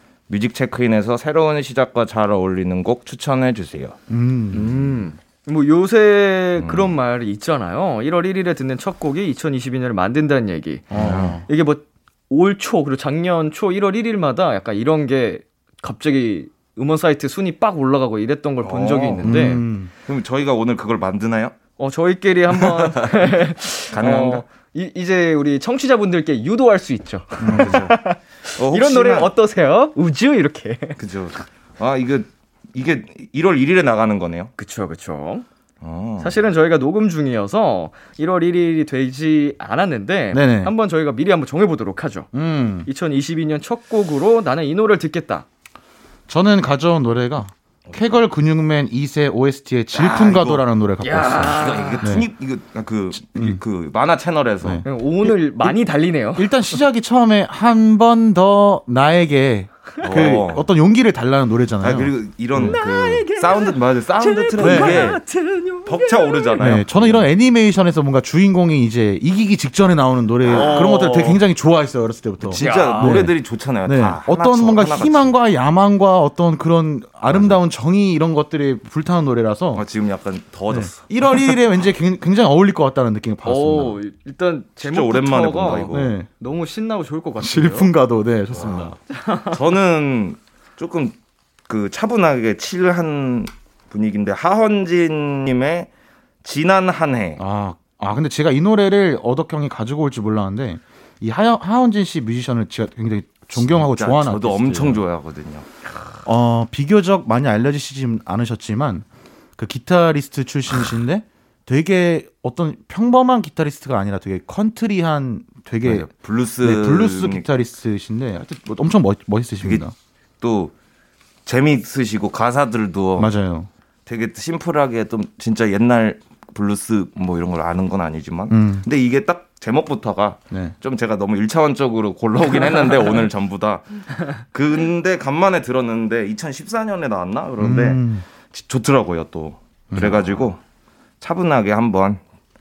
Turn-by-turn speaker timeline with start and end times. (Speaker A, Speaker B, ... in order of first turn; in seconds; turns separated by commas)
Speaker A: 0.3-4.0, Speaker B: 4.1-4.9, Speaker C: 4.5-19.6, Speaker A: 6.6-6.9, Speaker B: 10.9-11.4, Speaker A: 11.0-11.3, Speaker A: 18.6-21.5, Speaker B: 19.2-19.9, Speaker C: 21.8-31.0, Speaker A: 22.7-23.3, Speaker A: 23.9-24.4, Speaker B: 27.4-27.8, Speaker A: 27.4-28.0, Speaker A: 28.6-29.3, Speaker A: 31.0-34.5, Speaker C: 34.6-35.4, Speaker A: 35.8-36.4, Speaker C: 36.2-42.3, Speaker B: 40.3-40.7, Speaker B: 42.3-42.9, Speaker C: 42.8-45.5, Speaker B: 46.3-52.3, Speaker A: 49.9-50.6, Speaker C: 51.0-52.0, Speaker A: 51.4-54.8, Speaker B: 53.3-53.6, Speaker B: 54.6-55.8, Speaker C: 54.8-56.5, Speaker B: 56.4-62.8, Speaker A: 60.0-60.7, Speaker A: 61.8-65.2, Speaker C: 62.6-66.6, Speaker B: 64.6-65.1, Speaker A: 65.8-67.3, Speaker B: 66.6-79.8, Speaker A: 70.4-71.4, Speaker C: 70.5-71.3, Speaker A: 72.4-75.3, Speaker C: 72.6-73.2, Speaker A: 77.3-77.6, Speaker A: 79.7-81.0, Speaker B: 80.7-84.0, Speaker C: 83.4-87.9, Speaker A: 84.8-86.1, Speaker B: 85.9-86.3, Speaker B: 87.4-88.9, Speaker A: 88.5-88.9, Speaker C: 89.1-89.6, Speaker A: 89.5-91.2, Speaker A: 91.7-95.9, Speaker A: 96.4-97.4, Speaker B: 97.4-105.0, Speaker A: 103.5-105.7, Speaker B: 106.2-109.0, Speaker B: 109.6-116.1, Speaker A: 115.8-117.5, Speaker B: 116.6-119.9, Speaker A: 119.6-119.8, Speaker A: 120.4-120.7, Speaker A: 121.5-123.3, Speaker B: 123.2-123.7, Speaker A: 124.0-140.6, Speaker B: 128.5-128.8, Speaker B: 137.6-138.2, Speaker B: 139.9-140.3, Speaker A: 141.2-142.2